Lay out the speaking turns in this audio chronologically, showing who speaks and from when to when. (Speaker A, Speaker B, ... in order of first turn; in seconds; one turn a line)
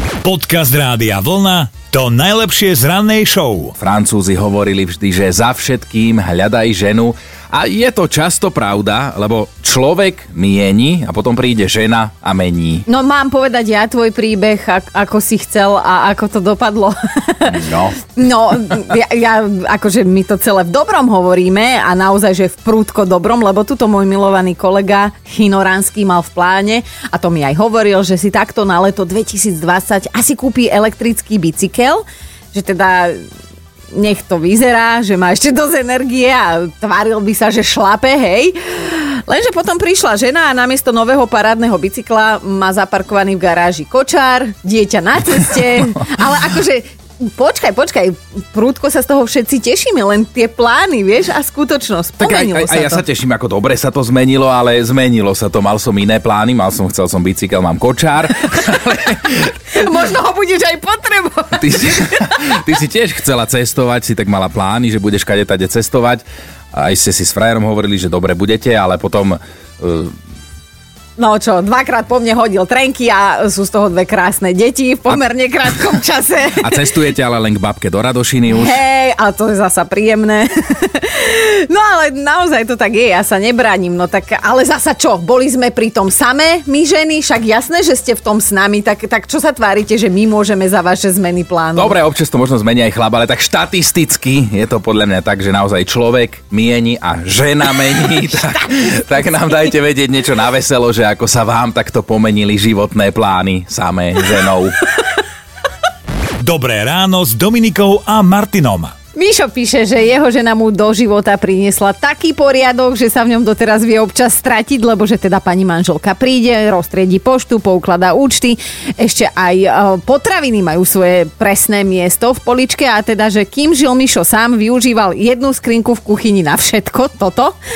Speaker A: 0.2-3.7
Speaker B: 3.8-12.8
Speaker C: 12.9-17.6
Speaker B: 17.5-18.0
Speaker C: 18.1-33.2
Speaker C: 33.9-53.0
Speaker B: 52.2-59.5
Speaker C: 59.7-62.2
Speaker B: 61.6-70.1
Speaker C: 71.2-76.8
Speaker B: 76.6-78.8
Speaker C: 78.5-92.0
Speaker B: 91.8-104.8
Speaker A: 106.4-108.9
Speaker C: 109.1-127.5